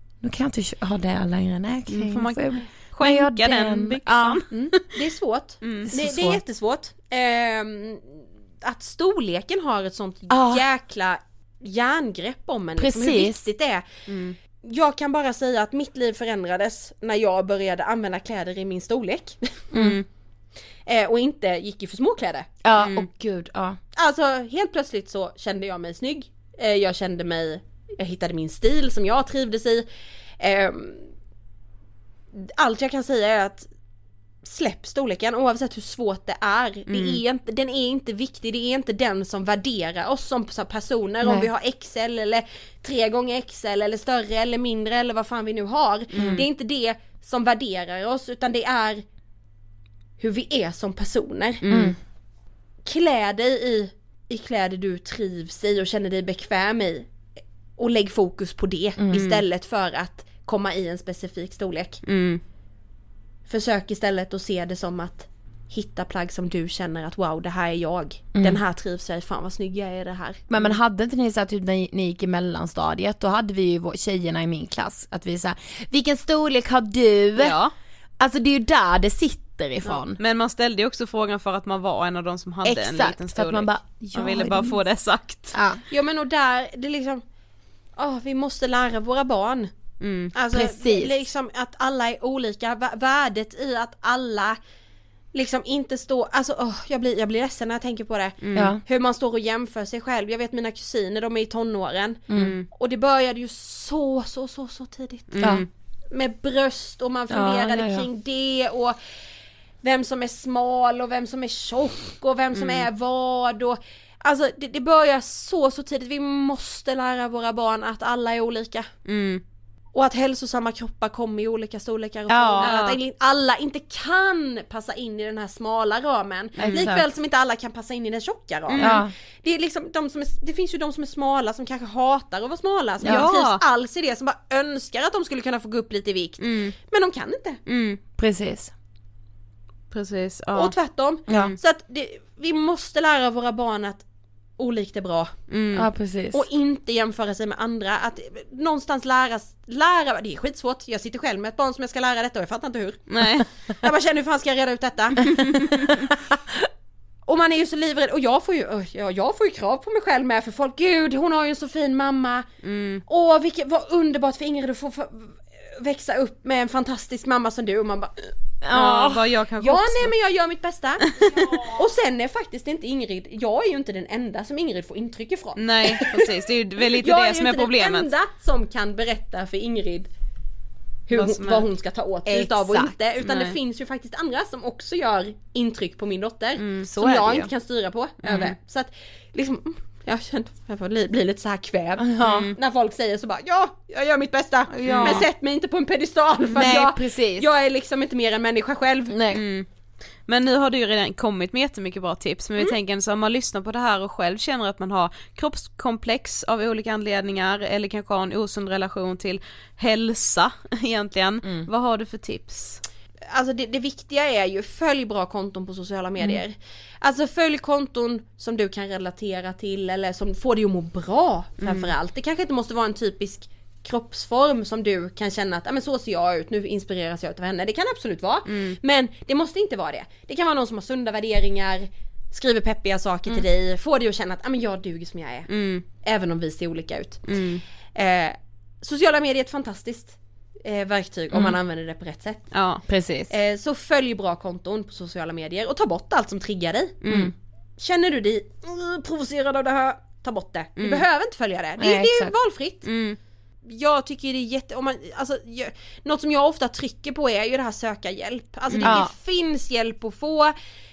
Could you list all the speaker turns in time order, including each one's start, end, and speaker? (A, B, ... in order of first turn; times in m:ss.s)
0:00.2-0:04.4 A
0:01.9-0:04.8 B
0:04.5-0:13.8 C
0:05.6-0:05.9 B
0:05.9-0:06.4 A
0:10.3-0:10.6 A
0:12.8-0:13.4 A
0:14.1-0:14.4 B
0:14.6-0:19.6 C
0:19.7-0:20.0 A
0:19.8-0:20.0 B
0:20.8-0:22.5 C
0:22.6-0:23.8 A
0:22.8-0:23.0 B
0:24.0-0:29.8 C
0:30.4-0:31.0 C
0:32.4-0:33.7 C
0:34.4-0:49.0 C
0:36.9-0:37.2 B
0:41.2-0:41.5 A
0:46.1-0:46.4 B
0:46.2-0:46.4 A
0:50.2-0:51.6 C
0:51.6-0:51.9 B
0:51.7-0:52.0 A
0:52.8-0:57.1 C
0:57.8-1:02.0 C
0:59.1-0:59.4 B
1:02.0-1:02.4 B
1:03.5-1:10.4 C
1:10.5-1:17.6 A
1:17.4-1:17.7 B
1:18.2-1:20.2 A
1:20.2-1:25.6 B
1:22.6-1:24.8 A
1:25.5-1:25.8 A
1:25.9-1:27.2 C
1:28.0-1:29.7 C
1:30.0-1:30.3 B
1:30.3-1:34.6 C
1:30.5-1:31.2 A
1:35.3-1:45.6 C
1:38.4-1:38.7 B
1:38.6-1:38.8 A
1:42.3-1:42.6 A
1:42.3-1:42.7 B
1:45.3-1:45.6 B
1:46.1-1:49.0 C
1:47.3-1:48.0 A
1:49.8-1:58.9 C
1:52.5-1:52.9 B
1:59.0-1:59.4 B
1:59.9-2:17.6 C
2:02.3-2:02.7 A
2:02.6-2:03.0 B
2:06.6-2:06.9 B
2:06.6-2:07.0 A
2:08.7-2:09.0 B
2:08.8-2:09.1 A
2:13.0-2:13.3 A
2:13.0-2:13.6 B
2:16.4-2:16.7 B
2:17.7-2:18.0 B
2:18.2-2:18.7 A
2:19.9-2:20.7 B
2:20.5-2:24.0 C
2:21.3-2:21.5 A
2:24.6-2:25.3 C
2:25.5-2:25.9 B
2:25.8-2:26.4 A
2:26.3-2:35.9 C
2:33.1-2:33.5 B
2:37.2-2:42.4 C
2:42.6-2:43.0 B
2:43.0-2:48.3 C
2:48.6-2:49.2 A
2:48.7-2:50.1 B
2:49.6-2:56.2 C
2:51.2-2:51.6 B
2:55.6-2:58.1 B
2:56.9-3:00.1 C
3:01.1-3:19.1 C
3:01.1-3:01.7 B
3:02.2-3:03.0 A
3:03.2-3:03.6 B
3:06.6-3:06.9 B
3:06.9-3:07.5 A
3:08.2-3:08.5 B
3:12.0-3:12.5 A
3:12.2-3:12.5 B
3:14.7-3:15.2 A
3:14.9-3:15.2 B
3:16.5-3:17.5 A
3:19.1-3:19.4 A
3:19.3-3:19.7 B
3:20.3-3:32.8 B
3:33.3-3:57.2 C
3:41.6-3:41.9 B
3:48.5-3:48.8 B
3:55.5-3:55.8 B
3:57.3-3:57.6 B
3:57.9-4:02.5 C
4:02.5-4:02.8 B
4:02.9-4:03.3 A
4:03.3-4:07.0 C
4:07.0-4:07.3 B
4:07.8-4:12.9 C
4:10.8-4:11.0 B
4:11.8-4:12.3 A
4:12.8-4:13.2 B
4:13.6-4:20.5 C
4:18.7-4:19.0 B
4:18.8-4:19.1 A